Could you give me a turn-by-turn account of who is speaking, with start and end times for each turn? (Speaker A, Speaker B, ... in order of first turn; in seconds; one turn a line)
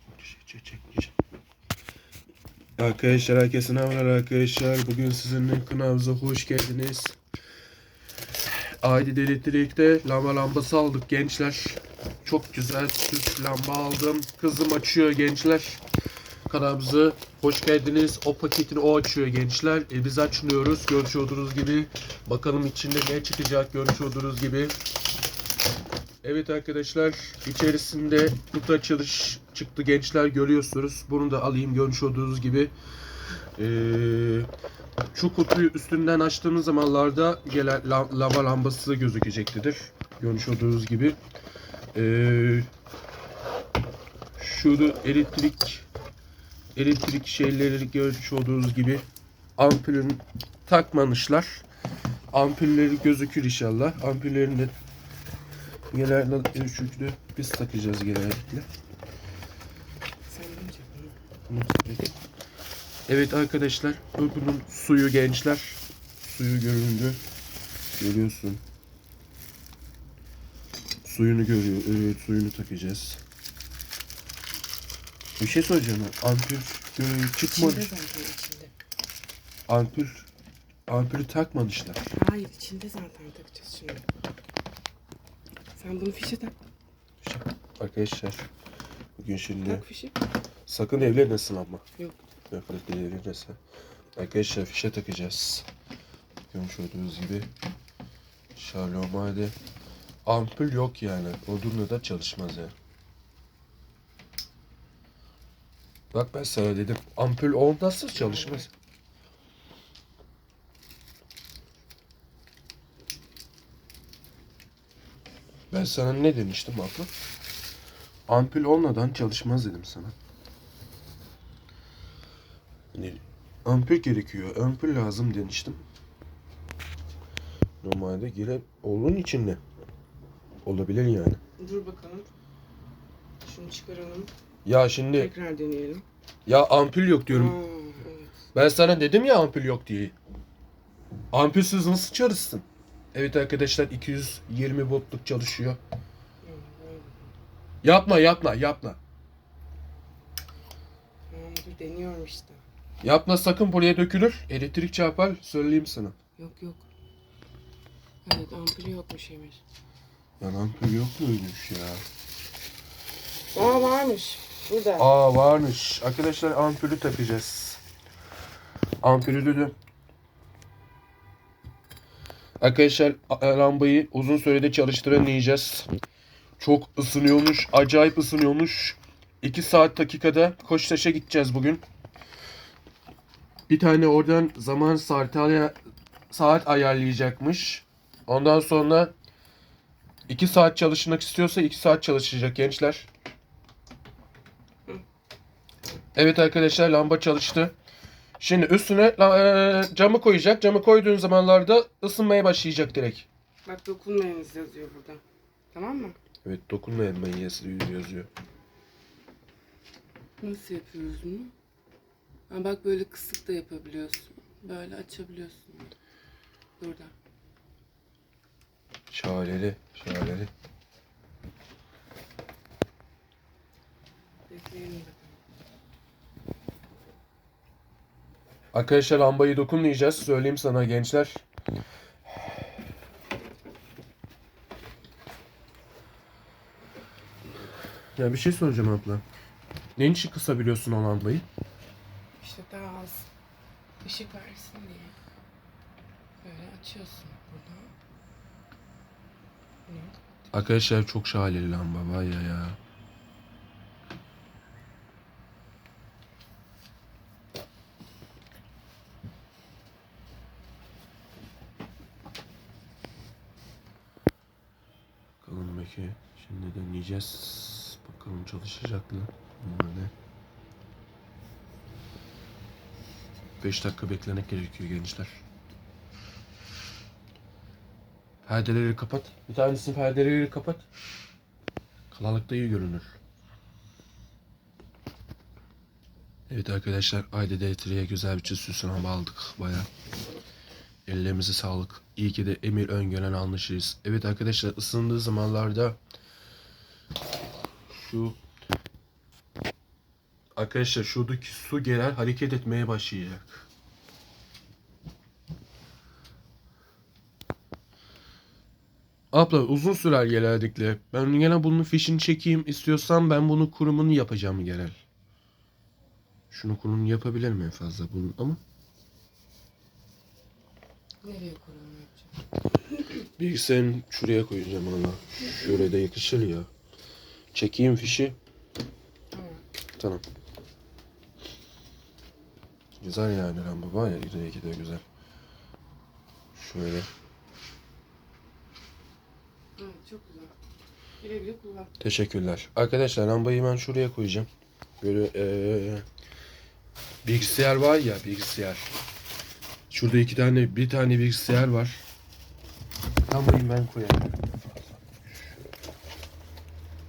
Speaker A: 0.1-1.1
Speaker A: 2.8-7.2
Speaker A: 8.8-15.8
Speaker A: 16.5-24.8
Speaker A: 26.2-32.7
Speaker A: 33.6-34.5
Speaker A: 35.1-41.2
Speaker A: 41.9-42.7
Speaker A: 44.4-45.9
Speaker A: 46.8-49.0
Speaker A: 49.6-51.6
Speaker A: 52.3-54.7
Speaker A: 55.9-58.7
Speaker B: 60.3-61.1
Speaker A: 61.5-62.1
Speaker A: 63.1-67.2
Speaker A: 68.0-68.6
Speaker A: 71.0-73.2
Speaker A: 75.4-77.9
Speaker B: 77.5-78.7
Speaker A: 79.7-80.3
Speaker A: 80.9-82.1
Speaker B: 82.1-84.1
Speaker B: 85.8-86.5
Speaker A: 87.2-88.5
Speaker A: 89.2-89.8
Speaker B: 89.6-90.2
Speaker A: 90.7-91.8
Speaker A: 92.5-93.6
Speaker A: 94.2-95.7
Speaker A: 96.5-97.5
Speaker A: 98.5-99.5
Speaker A: 100.2-102.7
Speaker A: 106.1-108.7
Speaker B: 108.2-108.7
Speaker A: 115.7-117.1
Speaker A: 118.3-120.1
Speaker A: 122.9-125.8
Speaker A: 127.8-129.6
Speaker A: 130.6-131.4
Speaker B: 131.6-132.3
Speaker B: 133.4-134.3
Speaker A: 134.7-135.3
Speaker B: 135.2-136.1
Speaker A: 136.5-137.6
Speaker B: 137.3-138.4
Speaker A: 138.5-140.1
Speaker A: 141.3-145.8
Speaker B: 146.4-147.3
Speaker A: 147.8-149.0
Speaker B: 151.3-152.6
Speaker A: 153.0-156.2
Speaker B: 156.4-156.9
Speaker B: 158.2-159.6
Speaker A: 160.4-162.0
Speaker B: 163.5-165.1
Speaker A: 165.0-167.8
Speaker A: 169.0-169.8
Speaker A: 172.6-175.9
Speaker A: 176.6-181.8
Speaker A: 183.7-185.8
Speaker A: 186.3-189.1
Speaker A: 190.3-193.1
Speaker A: 196.2-197.7
Speaker A: 198.4-203.3
Speaker B: 203.7-206.2
Speaker A: 206.4-208.3
Speaker B: 210.4-211.5
Speaker B: 212.5-215.9
Speaker B: 216.8-217.1
Speaker A: 219.1-220.5
Speaker B: 224.5-225.4
Speaker A: 228.7-231.4
Speaker A: 238.2-239.2
Speaker A: 240.0-241.5
Speaker B: 242.4-243.3
Speaker B: 244.0-245.2
Speaker B: 246.4-247.9
Speaker B: 249.9-250.2
Speaker A: 250.5-252.8
Speaker A: 265.4-270.1
Speaker A: 273.6-275.4
Speaker A: 278.4-280.8
Speaker A: 282.1-283.1
Speaker A: 286.5-289.9
Speaker A: 291.1-296.0
Speaker A: 297.9-298.4
Speaker A: 300.6-303.7
Speaker A: 309.3-314.9
Speaker A: 316.5-318.6
Speaker B: 321.2-322.3
Speaker A: 323.4-326.7
Speaker A: 327.5-328.4
Speaker B: 329.3-329.6
Speaker A: 330.0-330.2
Speaker A: 333.0-335.0
Speaker A: 336.6-337.1
Speaker B: 339.8-340.5
Speaker B: 341.2-341.9
Speaker A: 342.0-344.5
Speaker A: 345.0-346.1
Speaker A: 347.2-348.9
Speaker A: 349.9-352.1
Speaker A: 353.3-355.5